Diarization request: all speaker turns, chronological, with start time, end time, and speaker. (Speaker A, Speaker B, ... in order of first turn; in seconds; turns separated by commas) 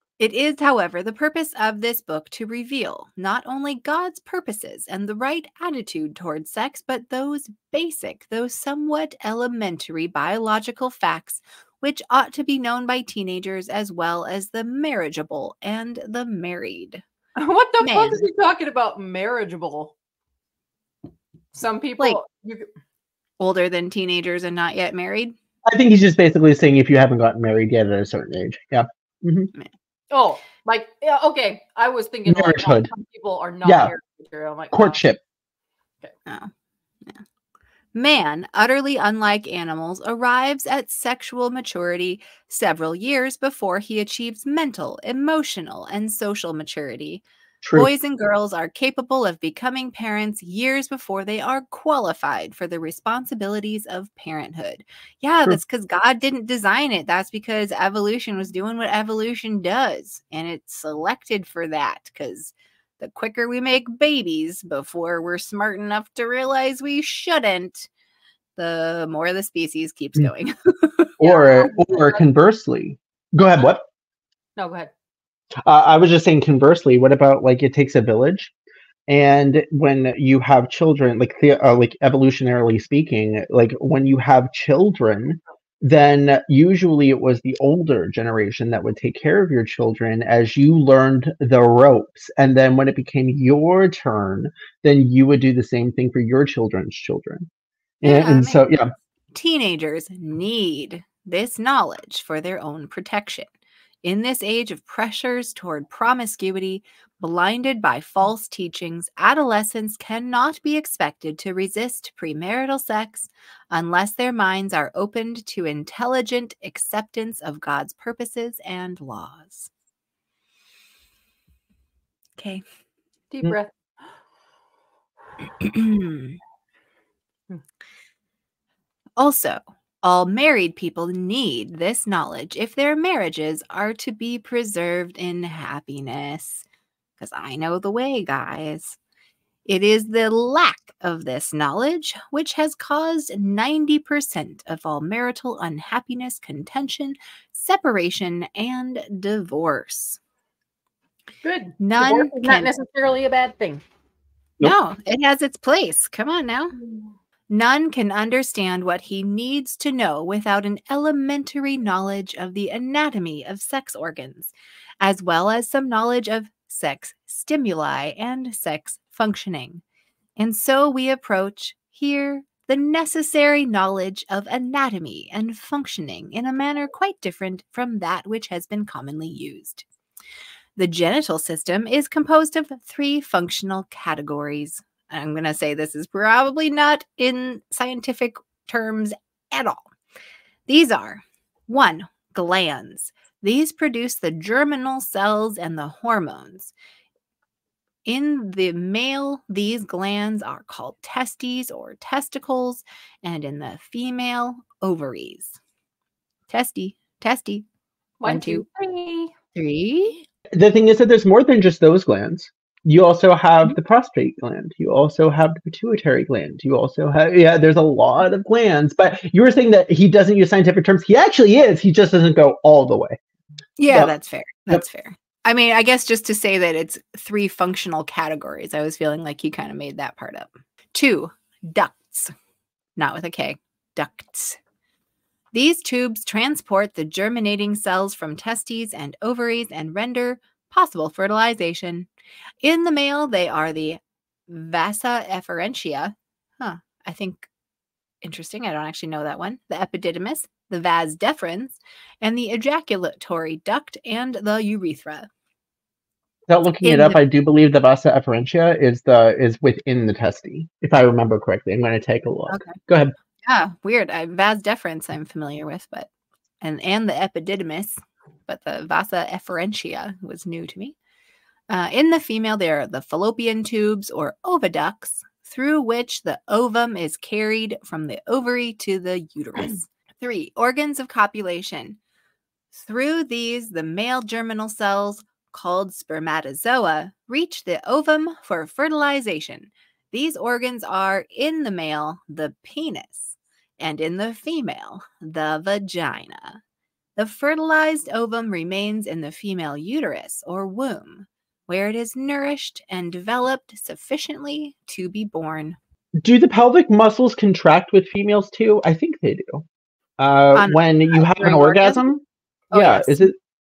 Speaker A: 0.2-17.0, Speaker B: 17.4-19.9, Speaker A: 17.8-18.2, Speaker B: 21.5-22.7, Speaker A: 23.4-25.4, Speaker C: 25.7-29.5, Speaker B: 30.1-35.0, Speaker C: 32.3-32.9, Speaker C: 33.6-33.9, Speaker C: 34.7-35.2, Speaker A: 38.0-47.2, Speaker C: 47.6-47.9, Speaker A: 47.8-67.9, Speaker A: 68.6-71.2, Speaker C: 71.2-73.8, Speaker B: 71.2-72.2, Speaker B: 74.6-74.9, Speaker C: 75.7-78.5, Speaker C: 79.1-97.5, Speaker C: 98.0-98.9, Speaker A: 98.0-98.6, Speaker A: 99.3-103.5, Speaker A: 104.0-119.7, Speaker A: 122.4-122.6, Speaker B: 123.3-123.7, Speaker A: 125.6-126.4, Speaker A: 129.2-136.7, Speaker A: 137.2-139.0, Speaker A: 139.7-150.2, Speaker B: 151.4-153.8, Speaker A: 151.8-152.7, Speaker A: 154.6-156.8, Speaker A: 157.5-169.8, Speaker A: 170.4-179.8, Speaker A: 180.8-189.9, Speaker A: 190.7-196.7, Speaker A: 198.1-205.6, Speaker A: 206.5-207.7, Speaker B: 208.2-209.3, Speaker A: 208.2-208.7, Speaker A: 209.5-210.2, Speaker C: 210.5-223.2, Speaker A: 223.8-232.3, Speaker A: 233.0-234.6, Speaker A: 235.5-242.1, Speaker A: 242.6-247.5, Speaker A: 248.2-255.3, Speaker C: 256.5-263.1, Speaker A: 256.8-257.2, Speaker A: 262.5-262.8, Speaker A: 263.4-266.1, Speaker A: 266.6-270.9, Speaker A: 271.7-282.0, Speaker A: 282.7-296.6, Speaker A: 297.2-305.8, Speaker C: 306.2-309.6, Speaker C: 310.2-313.3, Speaker A: 310.5-312.0, Speaker A: 312.7-313.2